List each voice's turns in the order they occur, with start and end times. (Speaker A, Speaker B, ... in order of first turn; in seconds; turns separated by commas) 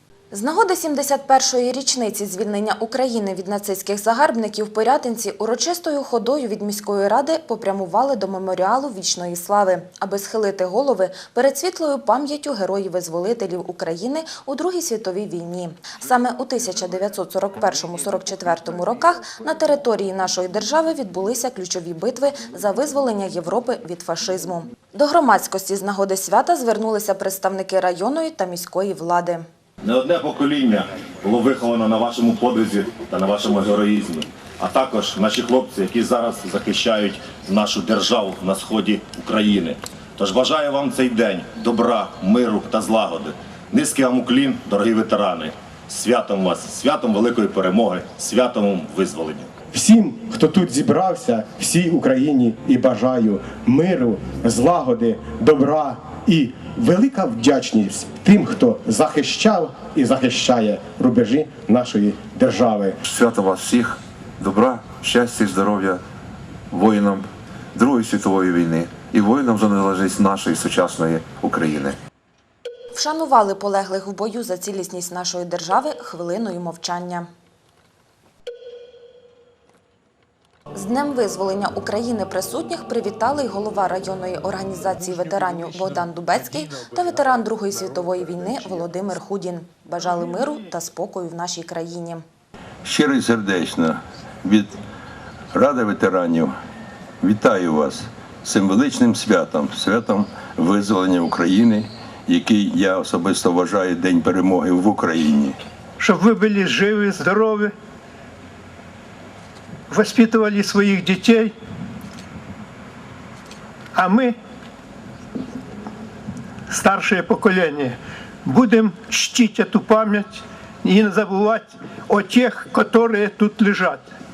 Speaker A: 0.3-29.4, Speaker B: 29.8-49.5, Speaker C: 49.7-63.0, Speaker D: 63.0-66.0, Speaker D: 66.7-72.0, Speaker A: 72.9-77.3, Speaker A: 80.7-92.2, Speaker E: 92.8-94.7, Speaker E: 95.5-96.5, Speaker E: 97.2-105.6, Speaker F: 106.0-107.7, Speaker F: 109.9-111.5, Speaker F: 113.9-114.3, Speaker F: 116.7-124.0